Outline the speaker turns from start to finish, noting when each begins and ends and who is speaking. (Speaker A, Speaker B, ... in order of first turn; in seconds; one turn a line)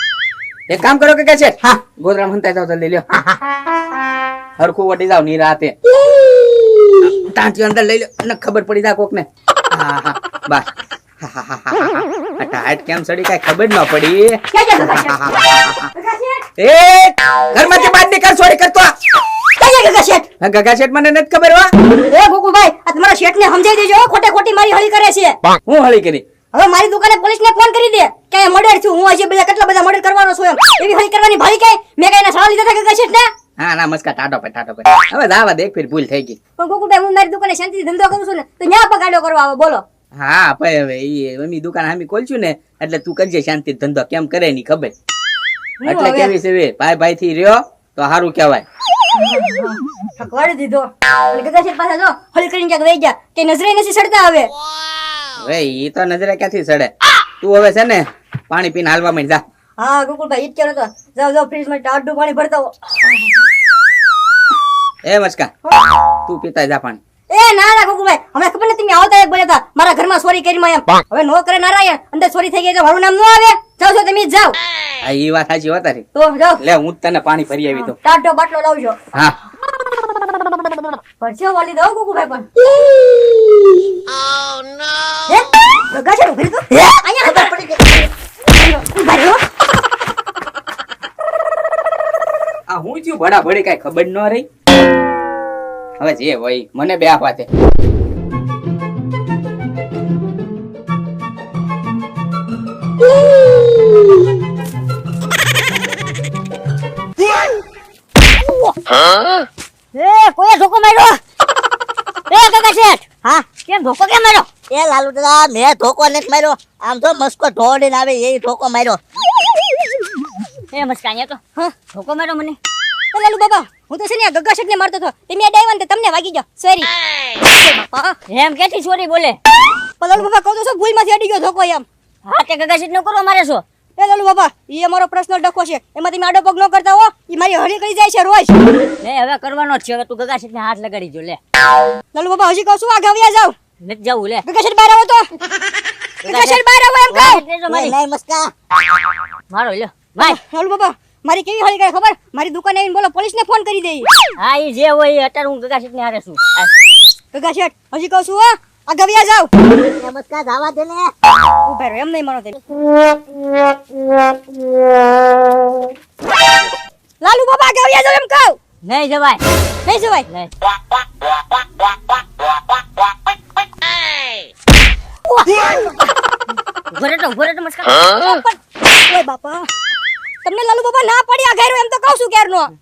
Speaker A: 0.7-3.0
Speaker A: 4.6-5.7
Speaker A: 7.0-10.7
Speaker A: 11.2-15.9
Speaker B: 14.5-15.2
Speaker B: 15.9-16.4
Speaker A: 16.6-18.9
Speaker B: 17.6-17.9
Speaker B: 19.6-20.3
Speaker A: 20.4-21.7
Speaker B: 22.1-25.4
Speaker A: 25.7-26.2
Speaker B: 26.5-33.3
Speaker A: 33.6-36.4
Speaker B: 36.6-39.8
Speaker A: 40.2-44.9
Speaker B: 45.8-46.3
Speaker A: 45.9-48.6
Speaker B: 49.1-54.5
Speaker A: 55.4-59.4
Speaker B: 59.8-63.4
Speaker A: 65.0-65.5
Speaker A: 66.3-67.0
Speaker B: 67.3-74.6
Speaker A: 75.0-76.0
Speaker B: 76.1-76.6
Speaker A: 76.6-77.9
Speaker B: 77.8-79.0
Speaker B: 81.2-82.5
Speaker B: 85.3-87.5
Speaker C: 86.7-87.9
Speaker B: 88.5-89.4
Speaker A: 92.7-94.4
Speaker A: 96.0-97.5
Speaker D: 109.9-111.2
Speaker D: 112.3-114.5
Speaker C: 114.7-119.0
Speaker D: 120.7-121.4
Speaker D: 121.9-122.6
Speaker B: 123.1-126.9
Speaker B: 127.4-128.2
Speaker D: 128.3-129.4
Speaker B: 130.0-131.8
Speaker D: 132.2-133.6
Speaker B: 134.0-138.6
Speaker D: 139.0-141.4
Speaker B: 142.1-143.5
Speaker D: 143.8-144.4
Speaker B: 144.4-145.2
Speaker D: 146.2-146.6
Speaker B: 146.2-147.4
Speaker D: 147.1-147.9
Speaker C: 147.1-148.5
Speaker D: 149.5-150.4
Speaker B: 150.2-154.1
Speaker D: 154.4-156.7
Speaker B: 157.3-159.5
Speaker C: 160.0-161.1
Speaker B: 161.7-162.6
Speaker B: 167.2-168.6
Speaker D: 168.8-169.4
Speaker B: 169.9-170.3
Speaker B: 175.3-176.0
Speaker D: 176.9-178.1
Speaker B: 178.1-179.7
Speaker B: 180.4-182.7